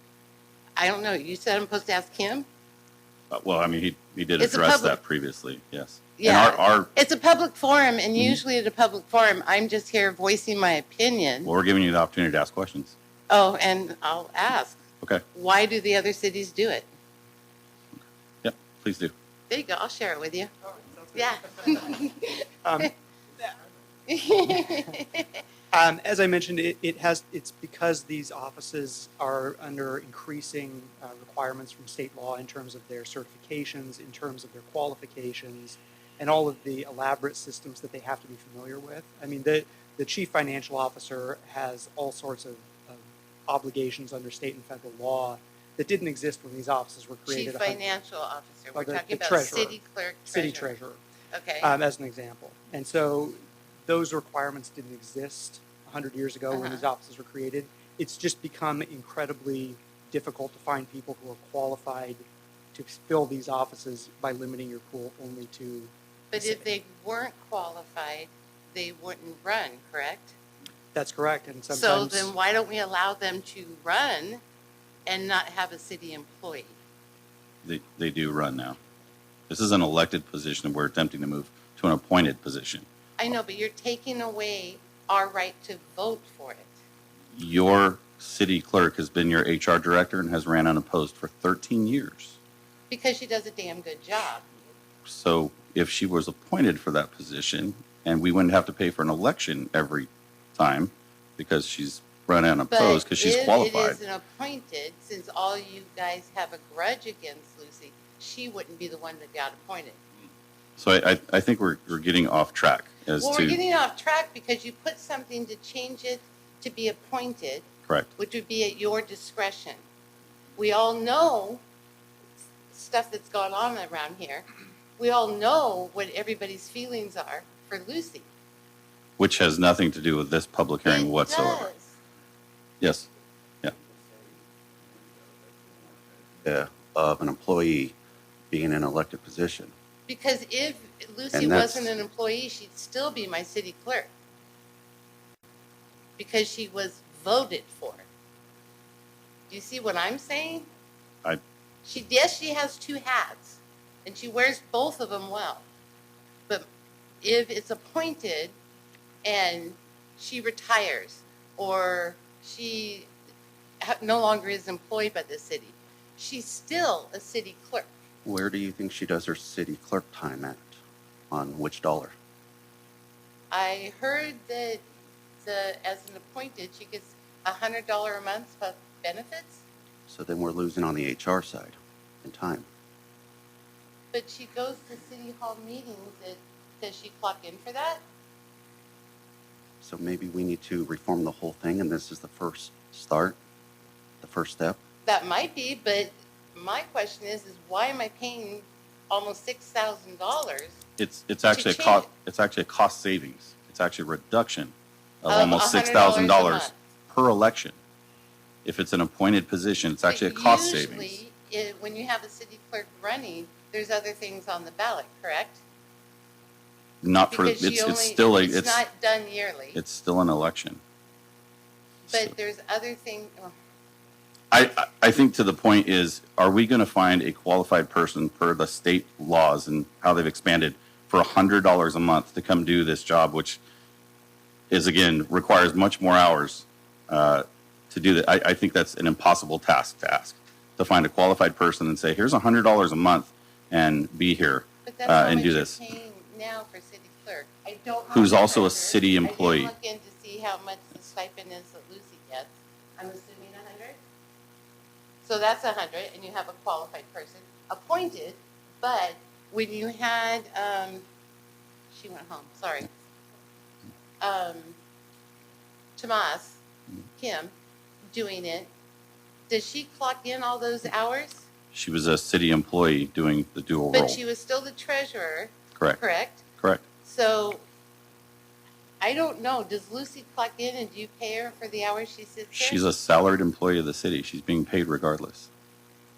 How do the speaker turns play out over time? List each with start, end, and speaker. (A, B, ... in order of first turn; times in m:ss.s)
0:00.8-0:02.5 A
0:03.3-0:06.9 B
0:04.4-0:05.0 A
0:06.2-0:11.5 A
0:11.4-0:12.9 B
0:13.3-0:14.8 A
0:15.3-0:16.9 A
0:18.4-0:19.1 B
0:19.5-0:20.5 A
0:21.1-0:22.9 A
0:22.6-0:23.5 C
0:24.1-0:25.4 A
0:25.7-0:47.8 C
0:47.3-0:50.7 A
0:48.7-0:49.8 C
0:50.3-0:51.0 C
0:51.3-0:51.7 A
0:51.6-1:06.6 C
0:56.5-0:56.9 A
1:06.3-1:10.4 A
1:10.9-1:12.3 C
1:11.7-1:14.4 A
1:15.1-1:16.8 A
1:17.6-1:18.8 B
1:19.5-1:22.9 B
1:23.2-1:26.7 A
1:27.3-1:32.4 B
1:32.9-1:34.4 A
1:35.1-1:44.0 B
1:42.7-1:50.0 A
1:50.8-1:53.6 B
1:53.2-1:59.8 A
2:00.6-2:01.6 A
2:02.7-2:04.4 A
2:05.0-2:08.3 A
2:09.2-2:11.7 B
2:10.9-2:12.0 A
2:12.8-2:13.1 B
2:16.4-2:18.0 D
2:18.5-2:19.7 D
2:20.1-2:24.1 A
2:21.3-2:21.9 D
2:26.2-2:28.1 A
2:29.5-2:30.7 A
2:31.8-2:35.6 A
2:37.2-2:38.6 A
2:39.2-2:43.1 A
2:43.8-2:47.9 A
2:48.2-2:50.8 D
2:51.3-2:52.2 D
2:53.5-2:54.8 A
2:55.4-2:59.6 A
3:00.1-3:02.7 D
3:04.1-3:08.0 A
3:09.8-3:13.4 D
3:14.2-3:14.8 D
3:15.0-3:20.8 A
3:21.0-3:27.8 B
3:21.5-3:22.1 A
3:25.3-3:26.8 A
3:28.6-3:31.2 B
3:30.0-3:35.6 A
3:37.0-3:38.8 B
3:37.2-3:39.8 A
3:39.8-3:40.8 B
3:42.1-3:42.3 B
3:42.1-3:43.5 A
3:44.5-3:53.6 B
3:54.7-4:05.8 B
4:04.9-4:14.0 A
4:08.1-4:09.7 B
4:15.2-4:21.0 A
4:21.9-4:22.9 A
4:24.2-4:24.8 A
4:26.0-4:26.6 A
4:27.2-4:27.5 A
4:28.1-4:28.7 A
4:29.5-4:31.4 A
4:31.7-4:34.2 B
4:33.9-4:36.4 A
4:35.8-4:36.0 B
4:37.0-4:37.6 A
4:39.0-4:42.8 A
4:42.6-4:45.5 B